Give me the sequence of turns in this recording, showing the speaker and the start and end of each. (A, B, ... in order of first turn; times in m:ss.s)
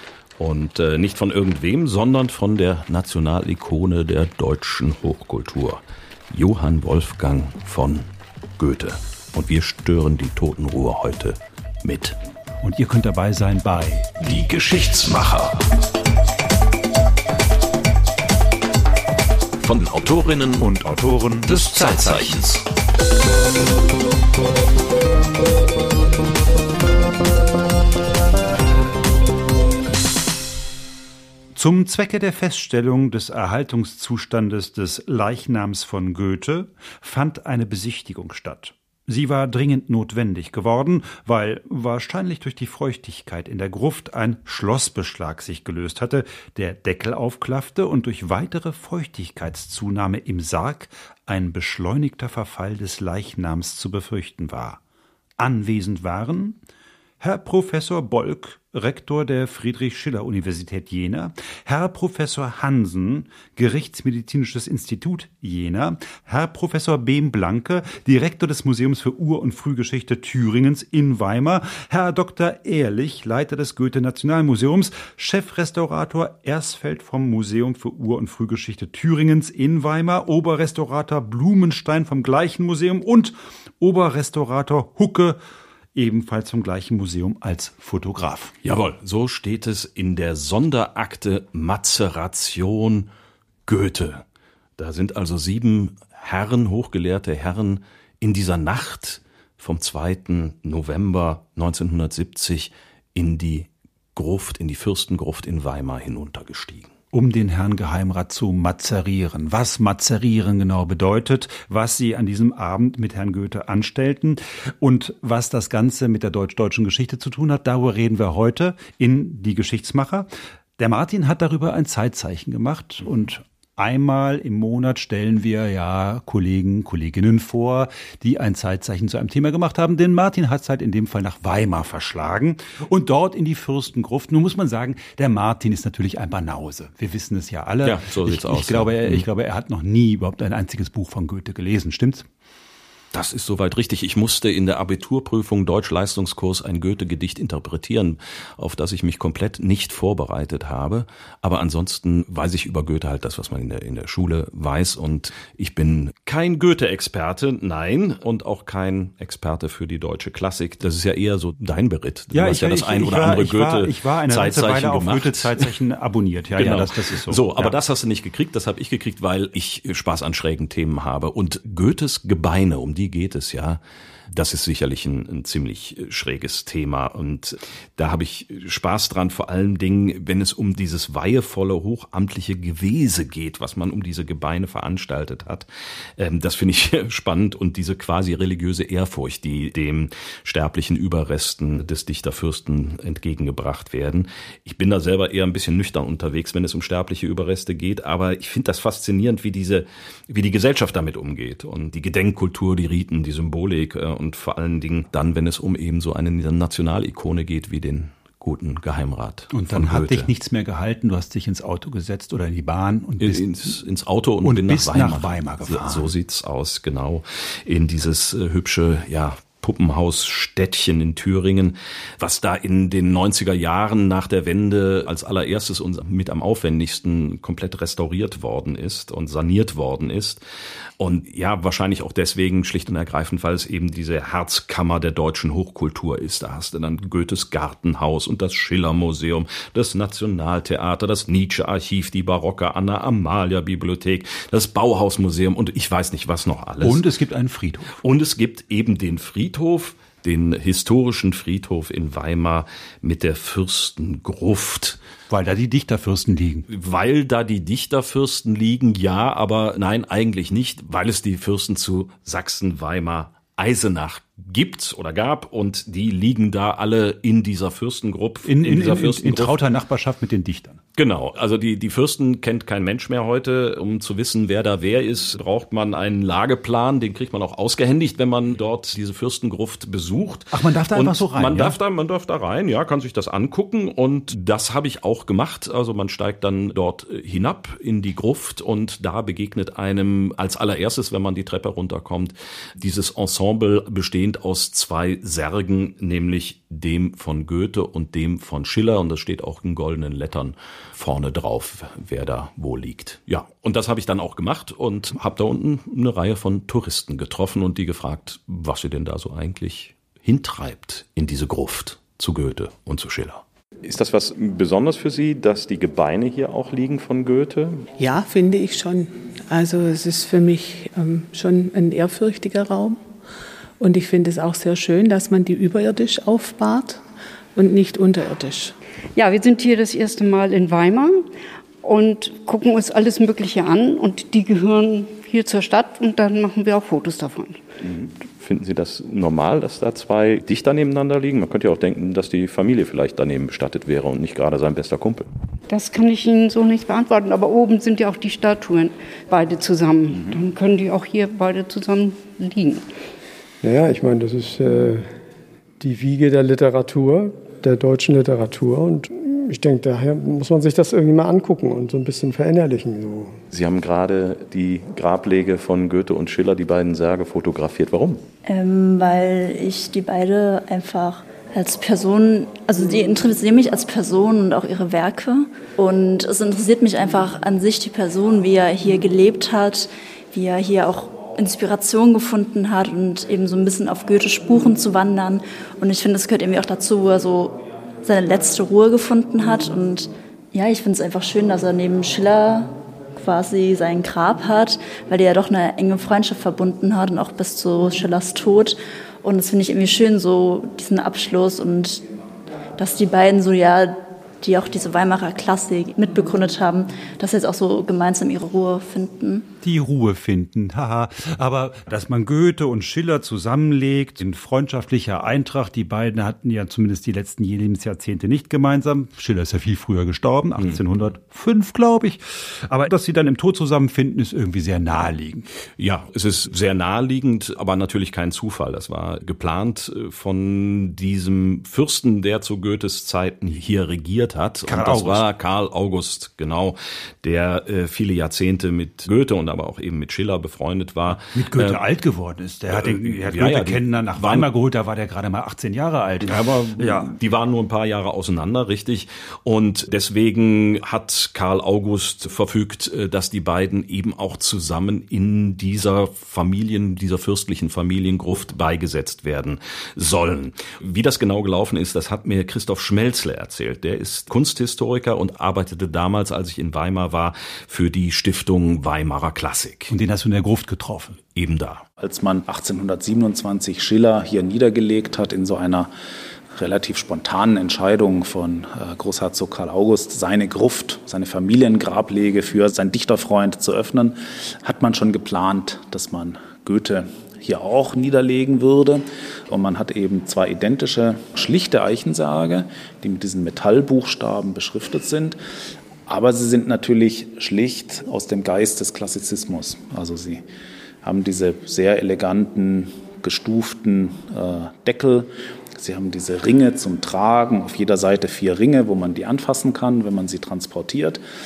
0:00.4-0:08.1 A
0:08.6-0:12.2 A
0:12.6-0:14.3 B
0:14.2-0:15.7 A
0:19.6-0:20.7 A
0:20.6-0:22.4 B
0:21.5-0:22.6 A
0:31.6-0:54.8 B
0:55.4-0:56.6 B
0:57.2-1:25.4 B
1:25.9-1:28.6 B
1:28.6-1:33.1 A
1:33.7-1:34.2 A
1:34.8-1:46.9 A
1:47.1-2:22.3 B
2:17.8-2:19.2 A
2:23.1-2:45.6 A
2:42.3-2:47.8 B
2:46.6-3:05.7 A
3:06.2-3:30.3 A
3:29.5-3:33.8 B
3:33.2-3:50.4 A
3:34.4-3:36.1 B
3:51.0-4:07.0 A
4:06.8-4:08.0 B
4:08.0-4:15.0 A
4:15.3-4:16.7 B
4:16.7-4:29.6 A
4:28.4-4:30.8 B
4:31.0-5:17.9 A
4:40.5-4:41.8 B
5:18.0-5:23.0 C
5:23.8-5:27.0 C
5:27.6-5:28.8 C
5:29.2-5:31.2 D
5:31.8-5:37.6 D
5:37.8-5:45.3 A
5:45.7-5:52.9 D
5:50.1-5:50.4 A
5:53.6-5:55.1 E
5:55.8-6:03.4 E
6:03.5-6:08.2 A
6:08.5-6:42.1 F
6:42.8-6:49.5 F
6:49.6-7:05.5 B
7:05.8-7:21.8 A
7:14.7-7:15.3 B
7:21.3-7:27.2 B
7:22.7-7:24.5 A
7:26.2-7:49.9 A
7:49.9-7:51.2 B
7:51.4-7:51.8 A
7:52.0-7:55.9 G
7:56.5-8:15.4 G
8:16.1-8:20.4 G
8:21.0-8:31.2 G